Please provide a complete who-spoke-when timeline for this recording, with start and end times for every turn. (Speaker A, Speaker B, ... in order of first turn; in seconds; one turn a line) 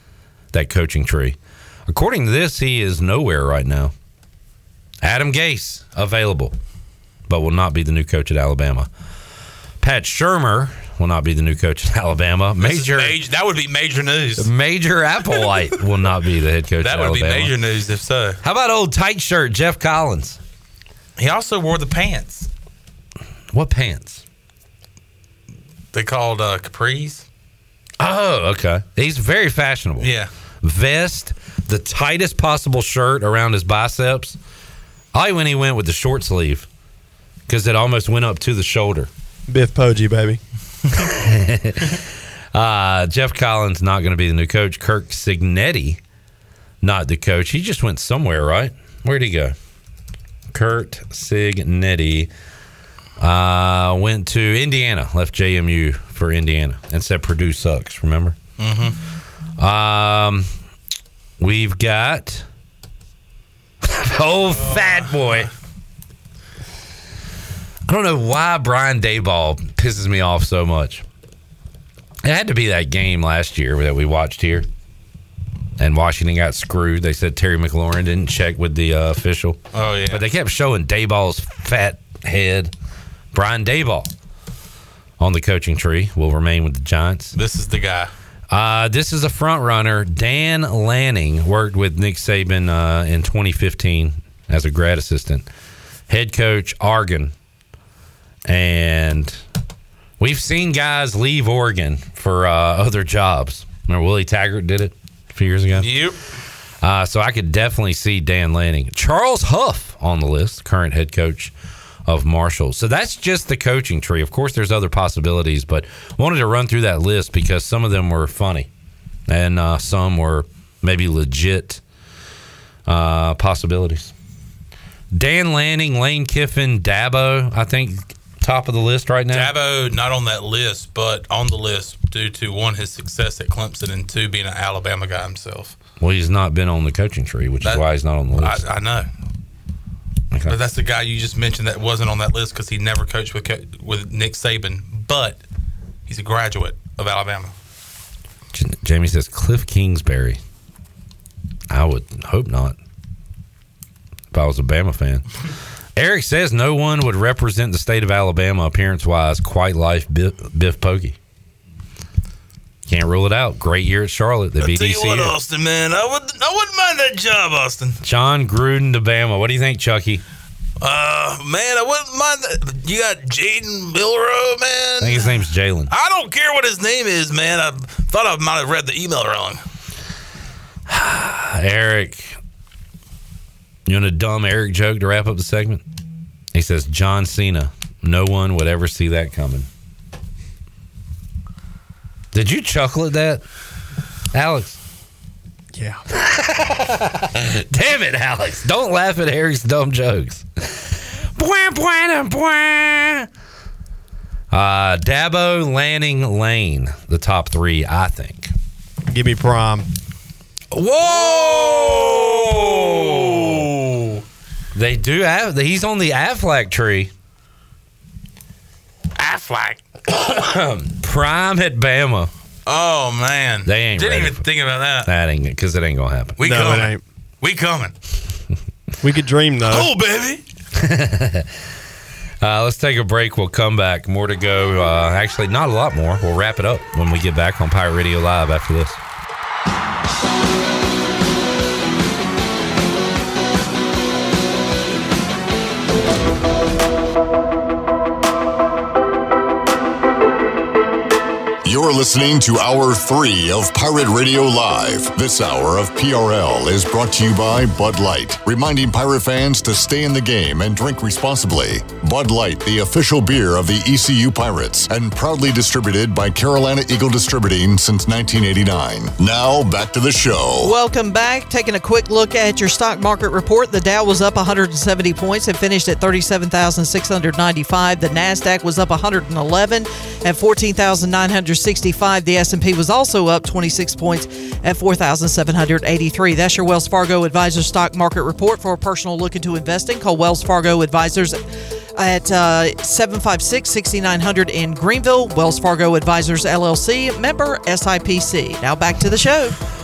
Speaker A: 0.5-3.9
Speaker A: 5.0-6.5
Speaker A: 7.3-8.9
Speaker A: 9.8-13.2
Speaker B: 12.6-14.5
Speaker A: 14.4-17.5
Speaker B: 16.8-18.4
Speaker A: 18.4-20.4
Speaker B: 21.2-22.5
Speaker A: 23.5-24.2
Speaker B: 25.9-27.3
Speaker A: 28.0-30.1
Speaker B: 30.0-30.3
Speaker A: 30.6-34.4
Speaker A: 35.1-36.7
Speaker A: 37.5-39.1
Speaker C: 39.5-40.4
Speaker A: 41.0-42.0
Speaker A: 42.5-46.0
Speaker A: 46.8-49.6
Speaker A: 50.5-52.3
Speaker A: 53.2-58.4
Speaker B: 58.6-59.0
Speaker A: 59.6-60.5
Speaker A: 61.4-62.5
Speaker A: 63.8-65.5
Speaker A: 67.9-71.0
Speaker A: 72.2-74.7
Speaker A: 75.8-82.7
Speaker B: 79.7-80.2
Speaker A: 83.3-84.1
Speaker A: 85.2-87.3
Speaker B: 87.3-88.1
Speaker A: 88.5-95.5
Speaker A: 96.1-97.3
Speaker A: 98.5-99.4
Speaker A: 100.2-105.9
Speaker B: 105.7-106.2
Speaker A: 106.8-111.5
Speaker A: 112.1-118.7
Speaker A: 119.3-121.8
Speaker A: 122.9-124.1
Speaker A: 125.1-129.5
Speaker B: 129.3-135.8
Speaker A: 136.0-138.6
Speaker B: 138.3-139.1
Speaker A: 140.3-140.6
Speaker B: 140.5-145.4
Speaker B: 146.1-147.5
Speaker A: 148.5-150.4
Speaker A: 151.7-152.8
Speaker A: 154.3-155.2
Speaker A: 156.0-161.2
Speaker A: 162.9-165.3
Speaker B: 164.6-168.0
Speaker A: 168.0-170.2
Speaker B: 170.8-179.6
Speaker A: 175.0-175.9
Speaker A: 180.9-182.4
Speaker A: 183.9-185.8
Speaker A: 186.5-189.7
Speaker A: 192.3-193.4
Speaker A: 194.3-194.8
Speaker C: 195.8-196.0
Speaker A: 196.1-203.3
Speaker A: 204.5-208.5
Speaker C: 209.1-209.9
Speaker A: 210.7-213.7
Speaker B: 211.0-214.2
Speaker A: 214.7-217.1
Speaker B: 219.2-219.8
Speaker A: 220.1-222.3
Speaker B: 222.7-225.1
Speaker A: 223.7-224.4
Speaker A: 225.0-226.4
Speaker B: 226.4-227.9
Speaker C: 226.4-227.0
Speaker C: 229.0-229.9
Speaker B: 229.6-230.4
Speaker A: 230.8-231.5
Speaker A: 232.4-239.0
Speaker D: 251.6-270.7
Speaker E: 270.6-291.4
Speaker E: 292.0-299.6